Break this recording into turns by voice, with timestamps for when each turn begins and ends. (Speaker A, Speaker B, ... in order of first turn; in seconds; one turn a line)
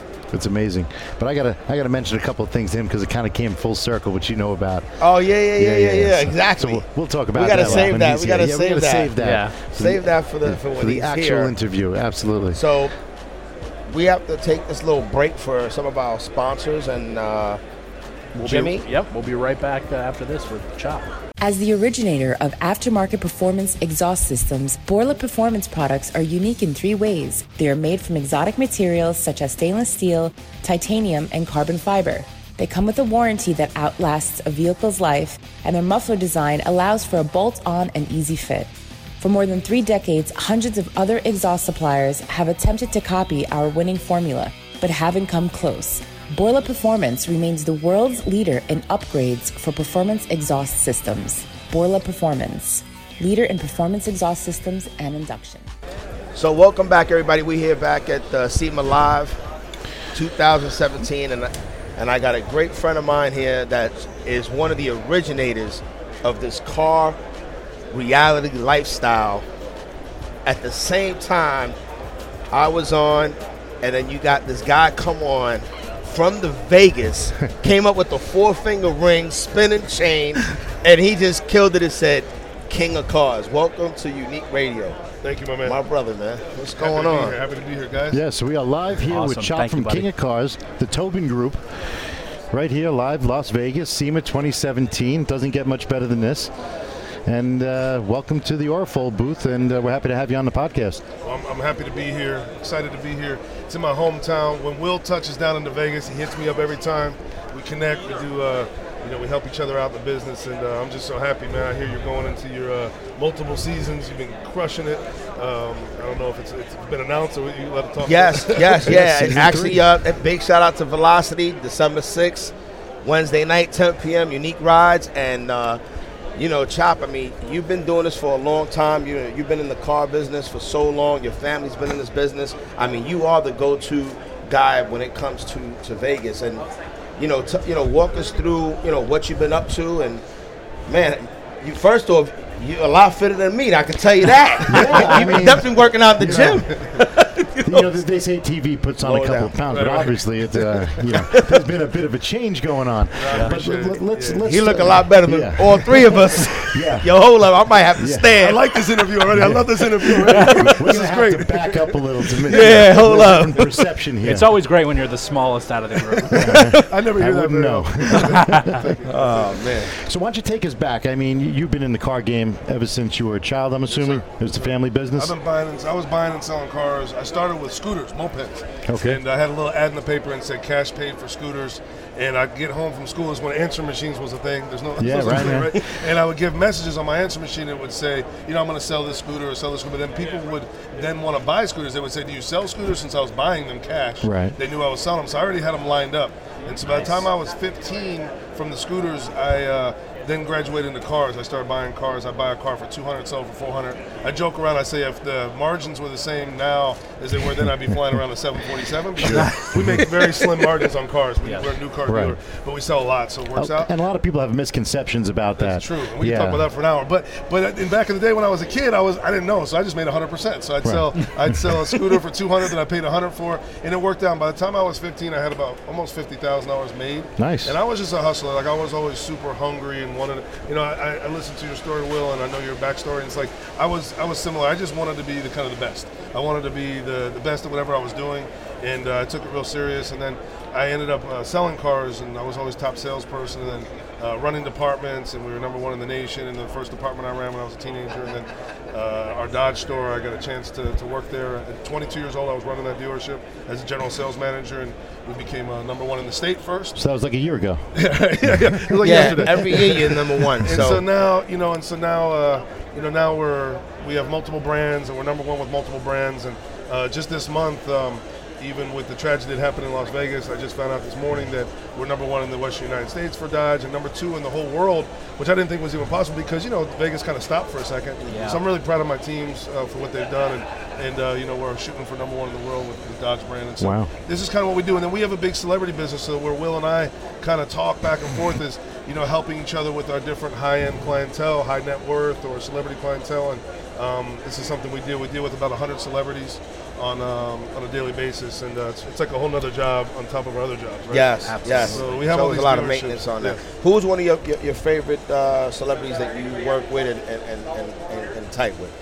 Speaker A: 0.3-4.9
Speaker B: 5.0-9.1
Speaker A: 5.5-12.6
Speaker C: 7.5-8.0
Speaker C: 9.2-9.6
Speaker B: 9.7-11.5
Speaker B: 12.5-12.9
Speaker B: 13.9-17.6
Speaker C: 18.3-21.1
Speaker B: 18.4-18.9
Speaker D: 21.4-55.7
Speaker B: 56.3-59.4
Speaker B: 60.1-67.2
Speaker B: 67.9-69.5
Speaker B: 70.4-71.8
Speaker B: 72.5-85.1
Speaker E: 85.2-85.8
Speaker B: 85.6-87.3
Speaker E: 86.8-88.2
Speaker A: 88.1-91.6
Speaker C: 89.1-90.1
Speaker A: 92.5-96.5
Speaker A: 97.2-101.0
Speaker E: 101.2-119.3
Speaker B: 118.0-125.8
Speaker A: 118.8-119.9
Speaker B: 126.3-140.2
Speaker B: 140.9-147.9
Speaker A: 144.7-146.7
Speaker E: 146.2-146.9
Speaker A: 147.6-157.1
Speaker B: 149.0-149.6
Speaker E: 149.7-150.2
Speaker B: 151.1-151.6
Speaker E: 153.2-154.5
Speaker B: 154.4-159.2
Speaker A: 158.0-158.3
Speaker E: 158.4-163.3
Speaker A: 159.3-159.7
Speaker B: 159.8-160.8
Speaker C: 160.3-160.7
Speaker A: 160.6-164.5
Speaker B: 162.4-163.9
Speaker C: 164.2-166.6
Speaker B: 166.2-166.9
Speaker E: 166.2-169.6
Speaker A: 166.3-168.9
Speaker C: 168.1-168.9
Speaker B: 169.1-169.9
Speaker A: 169.9-175.3
Speaker E: 173.9-213.9
Speaker A: 178.9-179.2
Speaker A: 185.0-185.8
Speaker A: 194.2-194.5
Speaker C: 196.9-197.3
Speaker A: 209.2-210.1
Speaker C: 209.3-210.3
Speaker C: 211.4-211.8
Speaker A: 212.1-212.4
Speaker A: 213.6-216.7
Speaker E: 215.6-257.0
Speaker A: 220.8-221.6
Speaker A: 227.4-227.8
Speaker A: 257.0-257.9
Speaker E: 257.9-303.6
Speaker A: 258.4-259.6
Speaker B: 259.0-261.0
Speaker C: 278.3-278.6
Speaker A: 283.8-284.1
Speaker B: 301.1-308.9
Speaker C: 301.4-302.2